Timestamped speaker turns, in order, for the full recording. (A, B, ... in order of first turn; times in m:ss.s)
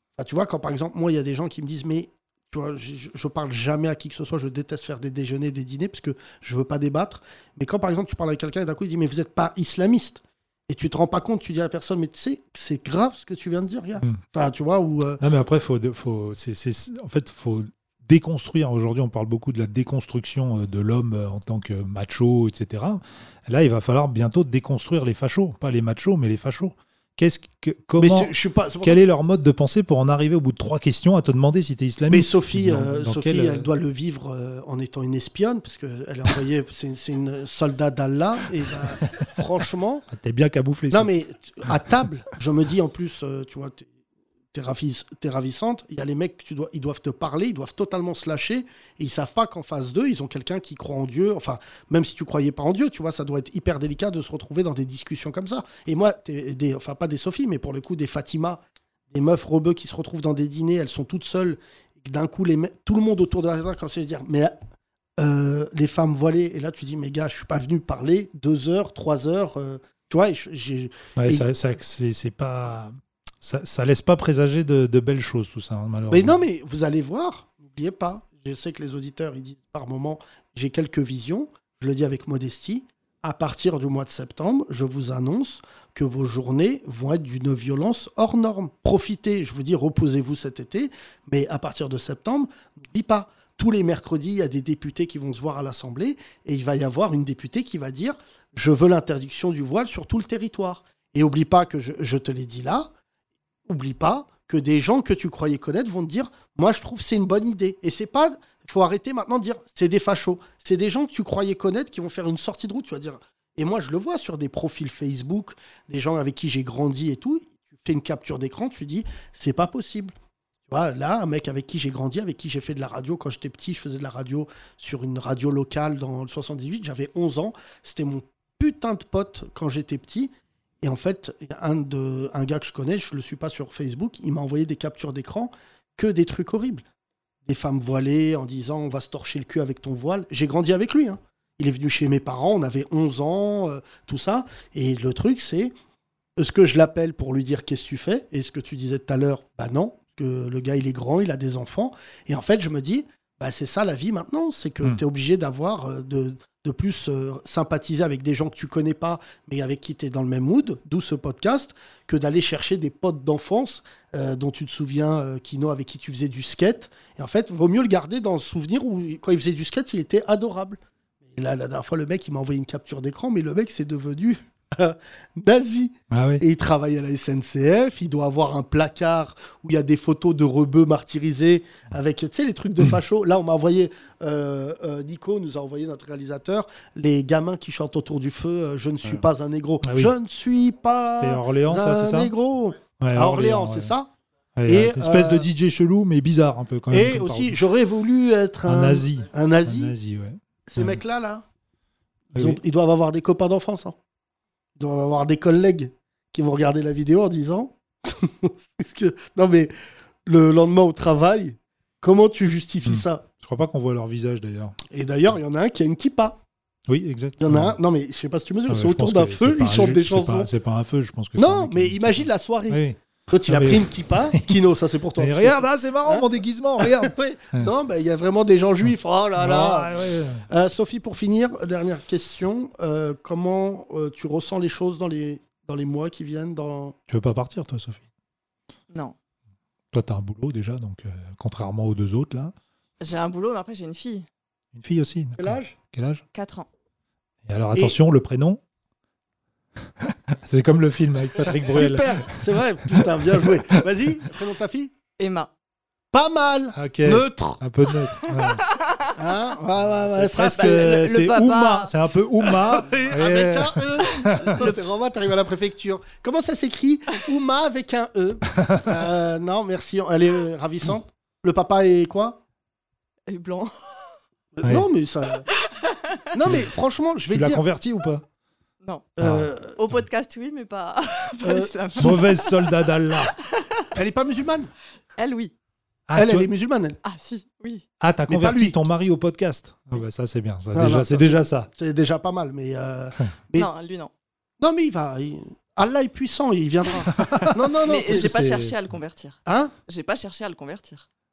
0:00.2-0:15.2 A
0:15.2-0:33.7 B
0:28.0-0:29.0 A
0:32.1-0:40.0 A
0:40.1-0:41.1 B
0:40.9-0:43.9 A
0:44.5-1:04.5 A
1:05.2-1:11.5 A
1:11.2-1:16.4 B
1:16.1-1:42.9 A
1:43.7-2:00.1 A
2:00.7-2:10.3 A
2:10.8-2:16.8 A
2:17.4-2:25.7 A
2:26.4-2:50.8 A
2:51.3-3:14.1 A
2:56.1-2:56.4 B
3:09.8-3:10.1 B
3:11.1-3:12.3 B
3:13.0-3:13.9 B
3:14.6-3:17.6 B
3:14.7-3:15.5 A
3:16.9-3:19.9 A
3:18.6-3:21.0 B
3:20.7-3:21.4 A
3:22.3-3:24.0 A
3:22.3-3:22.6 B
3:24.8-3:29.7 A
3:30.2-3:33.2 A
3:32.8-3:34.8 B
3:34.9-3:36.4 A
3:36.9-3:37.8 B
3:37.4-3:40.5 A
3:38.7-3:44.6 B
3:41.4-3:46.2 A
3:45.2-3:47.7 B
3:46.8-3:49.9 A
3:49.4-3:50.4 B
3:50.5-3:57.0 A
3:57.1-3:58.0 B
3:59.9-4:02.5 B
4:03.0-4:04.2 C
4:04.7-4:06.2 B
4:05.4-4:05.8 A
4:06.3-4:06.7 C
4:07.4-4:08.6 B
4:10.0-4:13.8 B
4:11.7-4:14.9 A
4:15.2-4:15.5 C
4:16.1-4:17.6 A
4:16.8-4:18.6 B
4:18.1-4:19.1 C
4:19.1-4:21.1 A
4:19.8-4:24.7 B
4:20.4-4:22.1 C
4:22.4-4:32.4 A
4:28.6-4:28.9 B
4:33.3-4:34.1 C
4:34.5-4:35.5 A
4:35.5-4:36.2 C
4:36.3-4:37.6 A
4:37.3-4:38.2 B
4:38.8-4:39.1 C
4:39.2-4:39.8 A
4:39.2-4:39.5 B
4:39.7-4:43.9 C
4:41.4-4:42.2 A
4:42.0-4:43.3 B
4:43.9-4:44.7 A
4:45.2-4:45.5 C
4:46.1-4:46.5 B
4:46.1-4:47.0 A
4:47.0-4:47.8 C
4:48.0-4:51.7 B
4:48.3-4:48.8 A
4:50.7-4:53.7 A
4:53.5-4:54.1 C
4:54.6-4:58.3 A
4:57.1-4:58.8 B
4:57.8-5:01.0 C
4:59.4-4:59.7 A